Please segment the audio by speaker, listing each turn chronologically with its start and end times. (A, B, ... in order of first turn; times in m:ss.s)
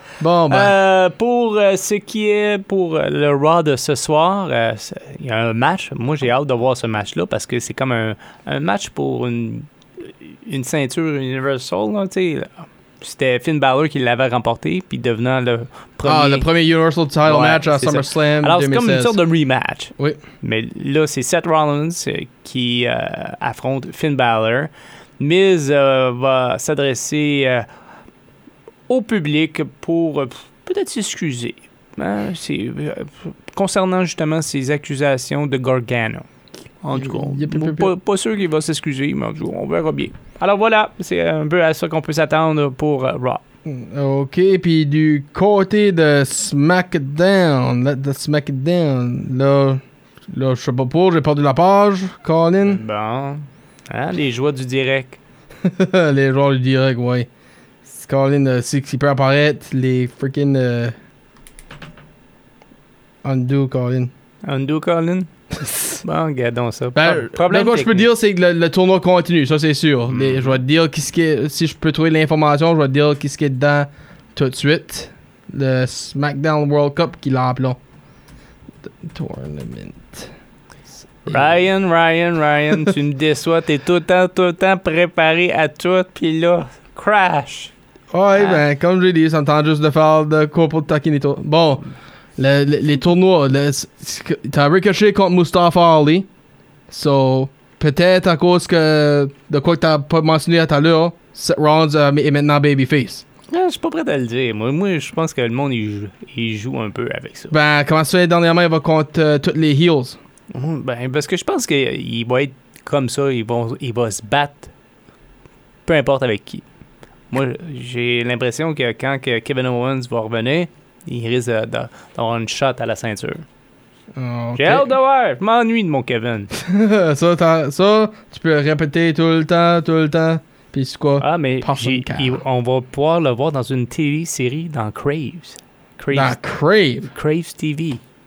0:00.2-0:00.7 A
0:00.5-0:16.5 B
0:16.0-0:19.2 A
0:17.2-0:27.7 B
0:28.9-0:36.3 B
0:36.8-0:43.4 B
0:37.0-0:37.9 A
0:43.7-0:52.8 A
0:52.6-0:55.2 B
0:55.6-0:57.3 A
0:57.9-1:01.0 A
1:03.2-1:04.1 A
1:04.4-1:05.3 B
1:06.0-1:08.1 B
1:07.0-1:17.8 A
1:10.1-1:10.6 B
1:19.0-1:20.3 A
1:21.2-1:21.6 A
1:21.3-1:27.7 B
1:28.1-1:31.8 A
1:28.3-1:28.6 B
1:32.4-1:36.3 A
1:36.9-1:43.2 A
1:43.5-1:47.6 B
1:47.5-1:50.2 A
1:50.5-1:54.7 B
1:55.9-1:56.6 B
1:57.3-2:03.4 B
2:04.2-2:04.9 A
2:04.6-2:06.5 B
2:06.5-2:12.4 A
2:11.2-2:16.4 B
2:16.1-2:17.1 A
2:17.0-2:18.0 B